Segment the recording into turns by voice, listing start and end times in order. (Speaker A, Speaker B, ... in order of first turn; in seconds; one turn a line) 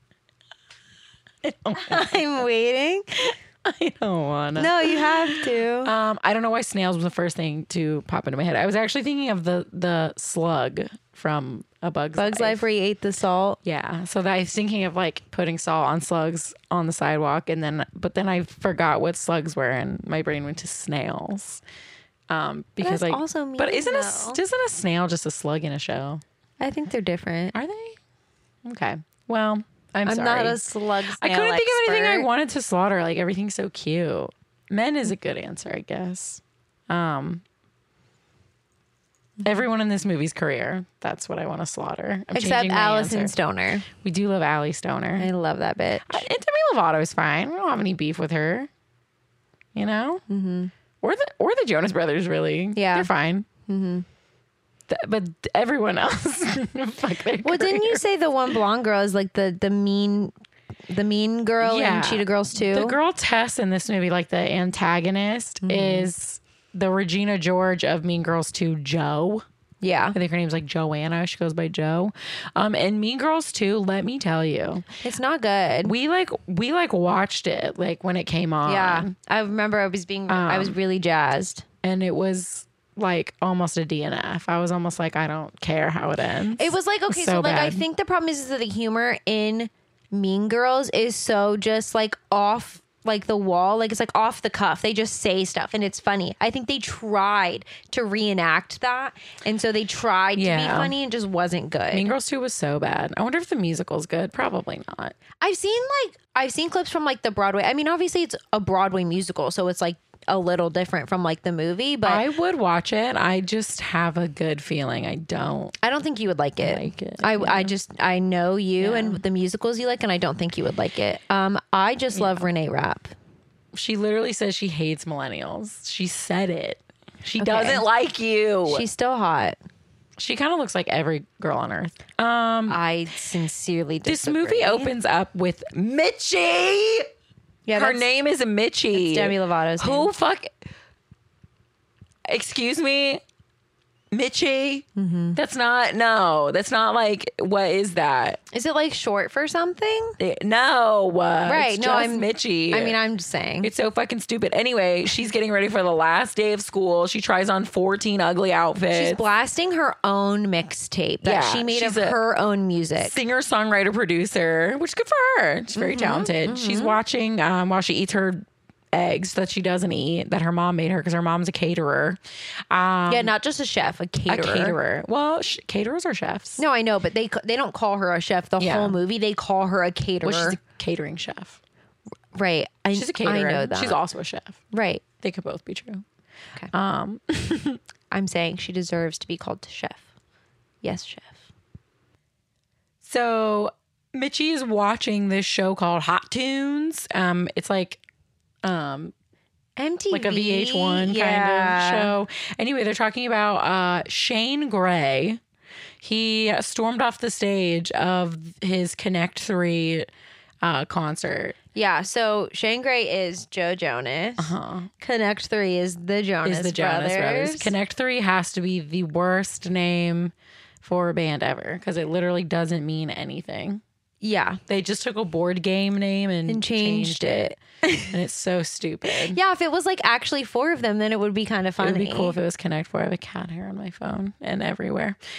Speaker A: 1.4-2.3
Speaker B: 1.8-3.3
Speaker A: 3.6-12.6
Speaker B: 4.5-5.9
Speaker B: 12.2-13.6
Speaker A: 13.6-21.6
Speaker A: 22.3-26.2
Speaker B: 22.8-24.4
Speaker B: 26.6-27.6
Speaker A: 27.5-28.0
Speaker A: 28.6-37.4
Speaker B: 30.1-32.3
Speaker A: 39.4-43.3
Speaker B: 42.3-43.9
Speaker A: 44.0-45.3
Speaker B: 45.2-46.2
Speaker A: 46.0-48.7
Speaker A: 49.7-50.2
Speaker B: 50.3-50.7
Speaker A: 51.0-53.5
Speaker B: 52.7-53.1
Speaker B: 53.6-54.0
Speaker A: 54.9-58.0
Speaker B: 57.4-60.3
Speaker B: 60.9-63.0
Speaker A: 61.6-69.4
Speaker B: 65.6-66.1
Speaker B: 69.8-70.2
Speaker A: 70.1-74.8
Speaker B: 75.0-75.9
Speaker A: 75.8-79.1
Speaker B: 78.7-81.7
Speaker A: 80.3-80.7
Speaker A: 81.8-87.8
Speaker B: 86.6-102.1
Speaker A: 100.3-100.9
Speaker A: 101.9-105.2
Speaker B: 105.4-112.2
Speaker A: 112.0-115.8
Speaker B: 115.8-123.1
Speaker A: 116.6-117.7
Speaker A: 118.8-119.2
Speaker A: 122.1-122.5
Speaker A: 123.7-128.8
Speaker B: 127.4-127.8
Speaker B: 128.7-129.6
Speaker A: 130.2-132.8
Speaker B: 132.7-134.9
Speaker A: 134.0-137.1
Speaker B: 137.7-138.1
Speaker A: 137.7-140.5
Speaker B: 138.9-140.1
Speaker A: 142.3-143.2
Speaker A: 144.1-148.4
Speaker B: 144.9-145.4
Speaker B: 148.5-150.2
Speaker A: 150.2-152.9
Speaker B: 151.5-153.7
Speaker A: 153.6-159.2
Speaker B: 158.9-163.2
Speaker A: 161.2-162.2
Speaker A: 163.0-172.2
Speaker B: 165.8-166.9
Speaker A: 172.7-173.3
Speaker B: 173.1-174.8
Speaker A: 174.3-176.6
Speaker B: 176.6-180.6
Speaker A: 178.6-179.0
Speaker A: 180.2-181.6
Speaker B: 182.3-184.0
Speaker A: 182.9-184.6
Speaker B: 184.7-185.0
Speaker A: 185.2-186.0
Speaker A: 186.7-187.8
Speaker B: 188.1-190.1
Speaker B: 190.8-191.4
Speaker A: 193.0-198.0
Speaker A: 198.6-199.1
Speaker B: 199.8-202.1
Speaker A: 200.1-205.4
Speaker A: 206.0-210.1
Speaker A: 210.6-211.6
Speaker B: 211.7-217.7
Speaker A: 214.4-214.9
Speaker A: 216.4-223.8
Speaker B: 224.2-224.6
Speaker A: 224.7-229.4
Speaker B: 226.5-228.1
Speaker B: 229.1-232.3
Speaker A: 231.8-235.2